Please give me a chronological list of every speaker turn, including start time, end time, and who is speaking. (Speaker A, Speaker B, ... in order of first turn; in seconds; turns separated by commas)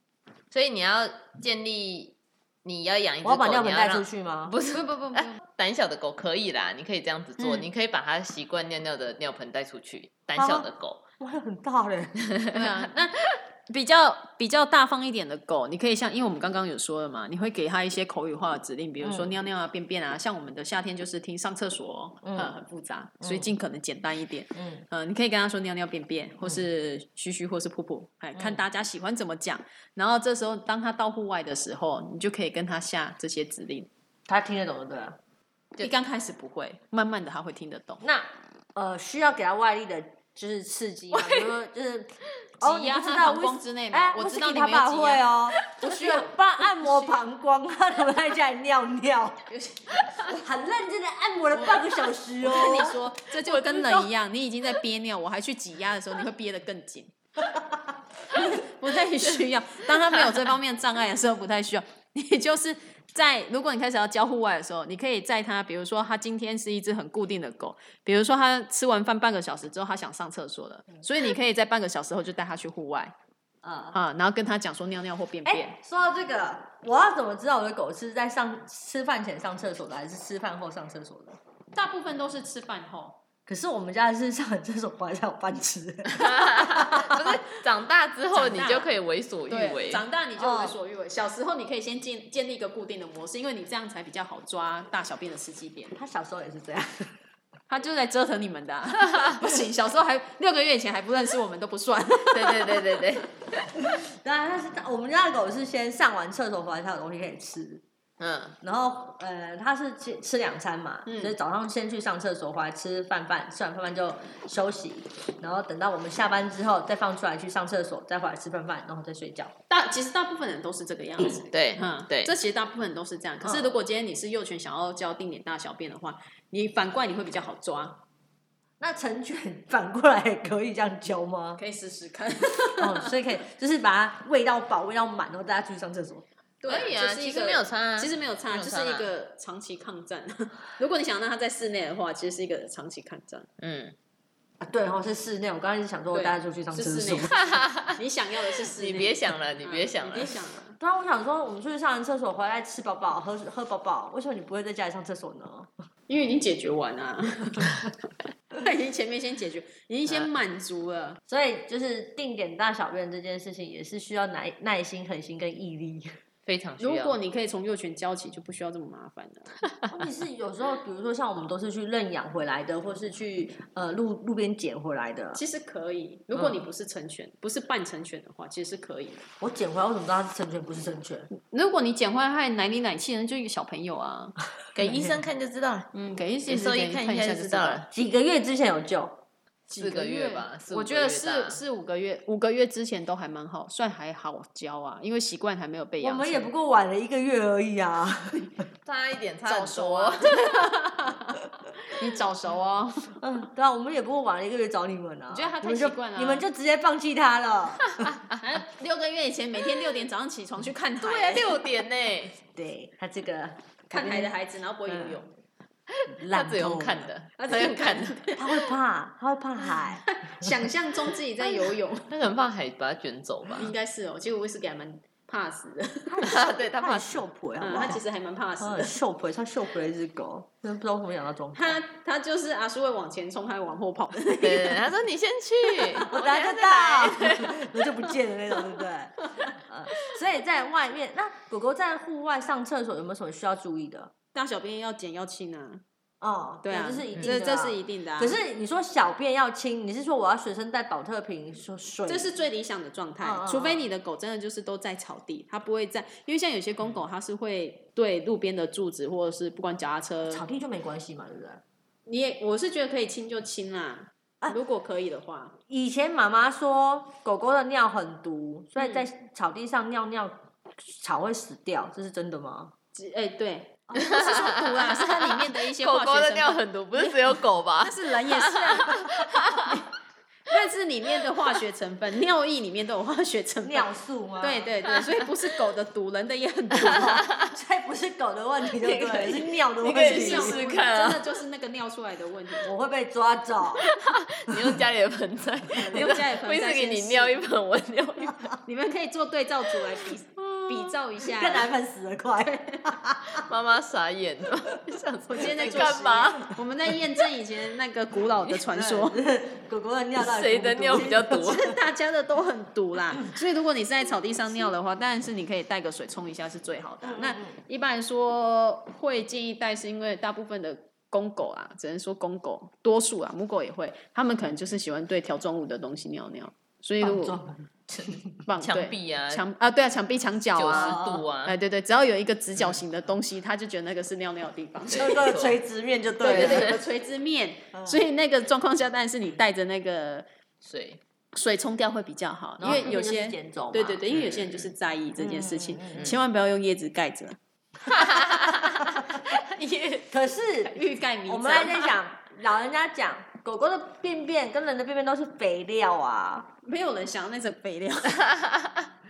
Speaker A: 0.5-11.0, Speaker B: 3.2-4.5, Speaker C: 4.7-5.4, Speaker C: 7.4-7.7, Speaker B: 10.3-10.7, Speaker B: 11.2-12.1, Speaker A: 12.2-12.8, Speaker C: 12.5-33.9, Speaker B: 19.0-19.3, Speaker B: 22.2-22.6, Speaker B: 23.2-23.5, Speaker B: 24.5-24.8, Speaker B: 28.3-28.6, Speaker B: 34.3-35.2, Speaker C: 35.8-38.0, Speaker B: 38.0-49.4, Speaker C: 42.6-47.2, Speaker C: 49.5-50.3, Speaker B: 50.3-53.0, Speaker C: 51.5-57.1, Speaker A: 53.5-54.0, Speaker C: 58.3-73.1, Speaker B: 73.6-74.0, Speaker C: 73.9-75.8, Speaker B: 75.4-81.4, Speaker C: 81.7-83.2, Speaker B: 83.5-87.3, Speaker A: 86.1-90.0, Speaker C: 88.3-89.0, Speaker C: 89.5-95.9, Speaker B: 90.4-90.8, Speaker B: 95.9-97.2, Speaker C: 97.7-103.0, Speaker A: 102.3-103.6, Speaker B: 103.8-107.8, Speaker A: 108.2-108.5, Speaker B: 108.6-119.5, Speaker C: 111.0-111.3, Speaker C: 119.7-128.0, Speaker A: 121.5-122.3, Speaker B: 123.4-123.7, Speaker B: 128.8-131.6, Speaker C: 131.6-133.2, Speaker B: 132.8-136.2, Speaker C: 136.6-143.5, Speaker A: 136.7-139.1, Speaker A: 143.6-143.9, Speaker B: 144.6-147.3, Speaker C: 146.1-150.8, Speaker A: 147.4-147.9, Speaker A: 148.7-150.3, Speaker B: 150.8-155.7, Speaker C: 156.1-157.9, Speaker C: 158.5-161.2, Speaker B: 161.3-166.2, Speaker A: 166.4-167.2, Speaker C: 166.8-169.7, Speaker B: 169.9-175.4, Speaker C: 175.3-179.2, Speaker B: 179.4-181.3, Speaker C: 181.3-184.4, Speaker A: 184.7-185.9, Speaker B: 184.8-185.1, Speaker C: 185.9-187.9, Speaker A: 186.4-187.9, Speaker B: 187.9-189.2, Speaker C: 189.7-196.5, Speaker A: 189.8-191.6, Speaker B: 196.0-198.5, Speaker A: 198.8-200.6, Speaker C: 199.4-203.2, Speaker B: 203.2-208.0, Speaker C: 205.3-206.5, Speaker C: 208.3-211.6, Speaker A: 211.0-212.3, Speaker B: 212.5-214.3, Speaker C: 213.9-215.3, Speaker B: 214.9-215.2, Speaker A: 215.9-218.3, Speaker B: 216.1-217.1, Speaker C: 217.4-218.7, Speaker B: 218.4-220.5, Speaker C: 220.1-222.1, Speaker A: 222.1-223.7, Speaker C: 223.5-226.2, Speaker B: 226.1-228.0, Speaker A: 226.2-227.2, Speaker C: 227.6-229.0, Speaker B: 228.6-231.8, Speaker C: 231.5-234.9, Speaker A: 234.4-237.7, Speaker B: 236.0-244.1, Speaker C: 244.3-245.8, Speaker B: 246.2-252.3, Speaker C: 246.6-248.4, Speaker C: 252.1-260.4, Speaker B: 253.2-253.8, Speaker B: 260.3-261.6, Speaker C: 262.1-265.6, Speaker B: 265.7-272.7, Speaker C: 272.9-279.8, Speaker A: 273.9-279.8, Speaker C: 280.5-283.9, Speaker B: 283.6-284.7, Speaker C: 284.4-287.3, Speaker B: 286.7-290.8, Speaker A: 287.0-287.5, Speaker A: 288.8-291.2, Speaker C: 289.9-292.7, Speaker B: 292.6-293.8, Speaker A: 293.8-298.5, Speaker C: 295.7-297.4, Speaker C: 298.6-301.7, Speaker B: 301.2-303.4, Speaker C: 302.4-302.9, Speaker A: 303.3-306.6, Speaker C: 305.3-309.2, Speaker B: 308.4-311.8, Speaker A: 310.1-311.7, Speaker C: 311.1-327.4, Speaker B: 317.0-317.5, Speaker B: 327.0-328.1, Speaker A: 327.9-329.4, Speaker C: 328.4-335.3, Speaker A: 330.6-331.5, Speaker B: 330.7-331.2, Speaker A: 334.9-335.6, Speaker B: 334.9-336.8, Speaker C: 336.2-340.2, Speaker A: 336.2-336.8, Speaker A: 340.6-341.0, Speaker C: 341.3-347.4, Speaker B: 342.6-344.0, Speaker A: 344.1-344.7, Speaker B: 345.2-346.1, Speaker A: 347.9-350.1, Speaker B: 350.1-356.5, Speaker C: 350.7-351.9, Speaker C: 356.6-358.4, Speaker A: 358.2-358.9